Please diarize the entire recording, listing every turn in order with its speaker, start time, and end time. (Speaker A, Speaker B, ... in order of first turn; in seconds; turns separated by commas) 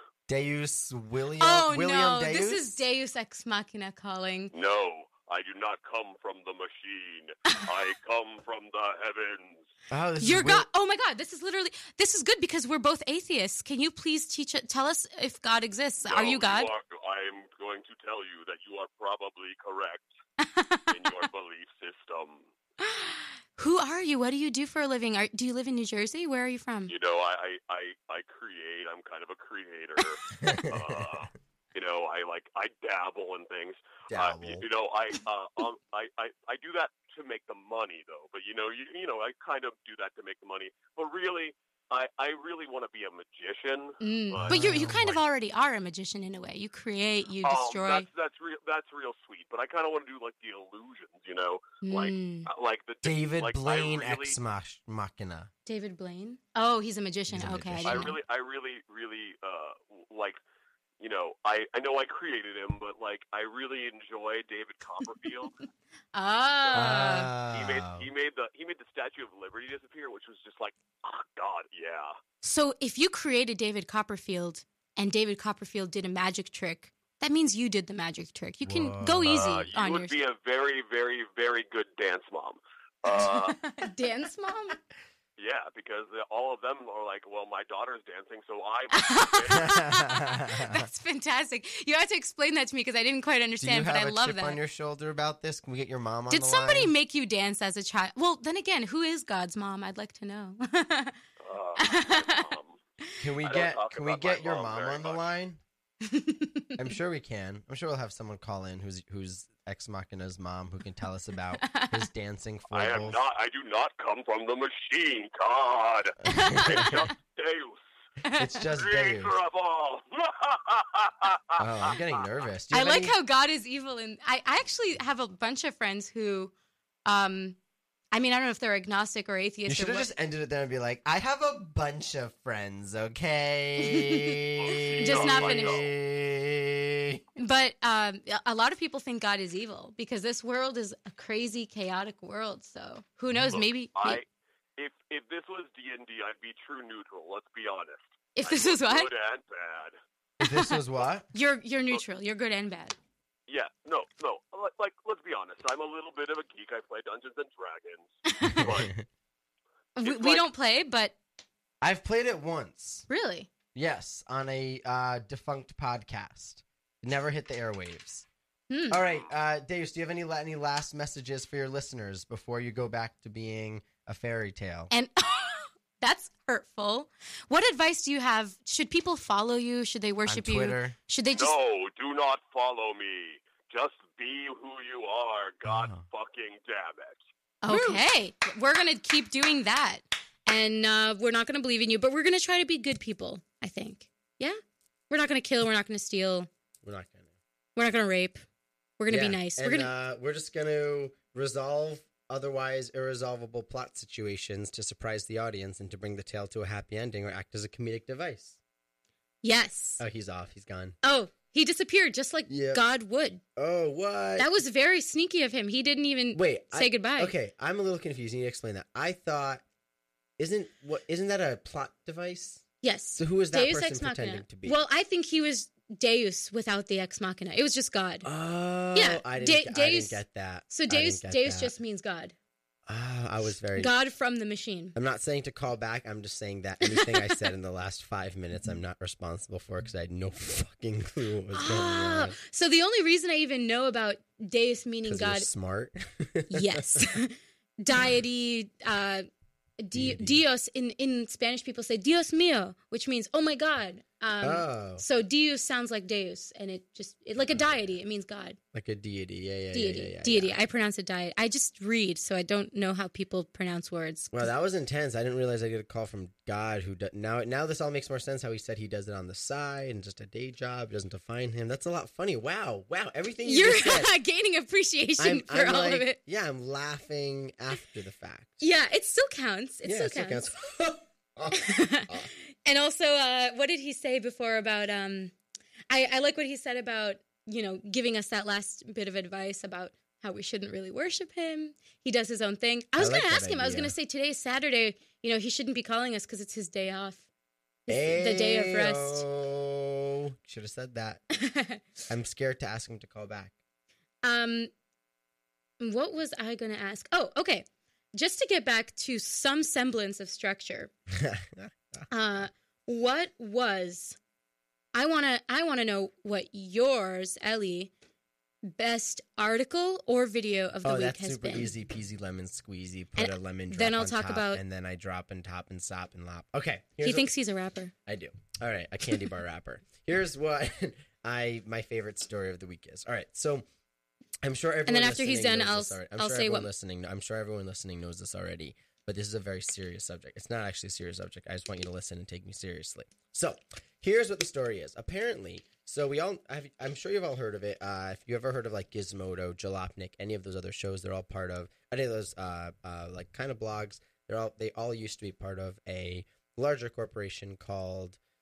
Speaker A: 0.3-2.7, Speaker B: 1.4-4.5, Speaker C: 4.5-9.7, Speaker A: 9.9-10.7, Speaker B: 10.2-16.7, Speaker C: 16.0-20.1, Speaker B: 20.4-20.9, Speaker C: 20.9-22.5, Speaker B: 22.8-26.9, Speaker C: 26.9-45.0, Speaker A: 30.3-31.2, Speaker A: 34.1-34.6, Speaker B: 44.0-48.1, Speaker A: 44.4-45.2, Speaker C: 47.4-54.4, Speaker B: 51.8-52.5, Speaker A: 53.0-55.5, Speaker B: 55.6-58.2, Speaker A: 57.3-58.1, Speaker C: 57.8-60.4, Speaker C: 61.0-65.6, Speaker B: 66.1-67.3, Speaker A: 66.7-68.1, Speaker C: 67.5-72.2, Speaker B: 72.4-80.2, Speaker A: 78.6-79.5, Speaker C: 79.2-83.6, Speaker B: 83.1-84.8, Speaker C: 85.4-89.8, Speaker B: 88.9-94.6, Speaker A: 89.6-90.9, Speaker A: 93.6-96.9, Speaker B: 96.3-101.2, Speaker C: 101.4-102.8, Speaker B: 101.8-102.5, Speaker A: 103.2-105.6, Speaker C: 103.4-105.2, Speaker B: 106.0-106.8, Speaker A: 106.8-113.2, Speaker B: 111.6-112.1, Speaker C: 112.7-117.8, Speaker B: 116.3-117.1, Speaker A: 116.3-117.0, Speaker B: 118.2-118.5, Speaker A: 118.3-119.3, Speaker C: 118.7-122.2, Speaker A: 121.6-123.1, Speaker B: 122.7-126.5, Speaker B: 127.0-127.6, Speaker B: 128.1-130.1, Speaker A: 129.7-137.2, Speaker B: 133.8-134.4, Speaker C: 134.6-135.9, Speaker B: 135.0-135.8, Speaker B: 137.3-144.2, Speaker C: 143.5-144.2, Speaker C: 144.8-150.0, Speaker B: 148.3-149.1, Speaker A: 150.4-151.3, Speaker B: 150.4-150.8, Speaker B: 151.3-152.9, Speaker C: 153.5-159.0, Speaker B: 158.3-158.8, Speaker A: 158.4-159.0, Speaker B: 159.9-161.2, Speaker C: 160.0-160.4, Speaker A: 161.8-163.1, Speaker B: 163.1-163.5, Speaker A: 163.7-168.3, Speaker B: 168.7-169.0, Speaker A: 168.9-174.9, Speaker B: 174.9-181.6, Speaker A: 180.2-181.0, Speaker C: 181.3-187.2, Speaker A: 185.6-186.0, Speaker B: 187.6-196.5, Speaker A: 187.7-188.0, Speaker A: 196.8-197.3, Speaker B: 197.8-198.4, Speaker B: 199.0-199.9, Speaker A: 199.1-208.6, Speaker B: 209.4-210.0, Speaker A: 210.0-211.0, Speaker B: 211.0-213.4, Speaker A: 212.5-212.8, Speaker A: 213.6-214.6, Speaker B: 214.4-217.3, Speaker A: 216.3-219.6, Speaker A: 220.4-222.6, Speaker B: 222.8-228.3, Speaker A: 223.2-224.8, Speaker A: 228.2-231.8, Speaker B: 228.9-232.3, Speaker A: 232.8-233.9, Speaker B: 233.8-234.9, Speaker A: 234.9-242.4, Speaker B: 236.8-237.4, Speaker B: 241.5-245.5, Speaker A: 245.0-247.1, Speaker B: 246.5-249.3, Speaker B: 249.8-258.6, Speaker A: 249.9-250.4, Speaker A: 254.4-255.0, Speaker A: 257.3-258.0, Speaker A: 258.7-260.6, Speaker B: 259.7-264.4, Speaker A: 264.3-274.2, Speaker B: 273.4-276.2, Speaker A: 275.2-278.6, Speaker B: 278.6-280.5, Speaker A: 279.8-282.3, Speaker B: 281.5-285.3, Speaker B: 285.9-297.2, Speaker A: 293.0-293.9, Speaker B: 297.9-299.2, Speaker A: 297.9-301.2, Speaker B: 301.4-301.8, Speaker A: 302.1-303.5, Speaker B: 304.2-304.7, Speaker B: 305.8-310.9, Speaker A: 311.1-312.0, Speaker B: 312.1-314.2, Speaker B: 314.9-317.9, Speaker B: 318.6-321.7, Speaker A: 320.8-327.3, Speaker B: 323.1-324.6, Speaker B: 327.0-327.9, Speaker A: 328.1-333.6, Speaker A: 334.4-358.2, Speaker B: 334.9-336.7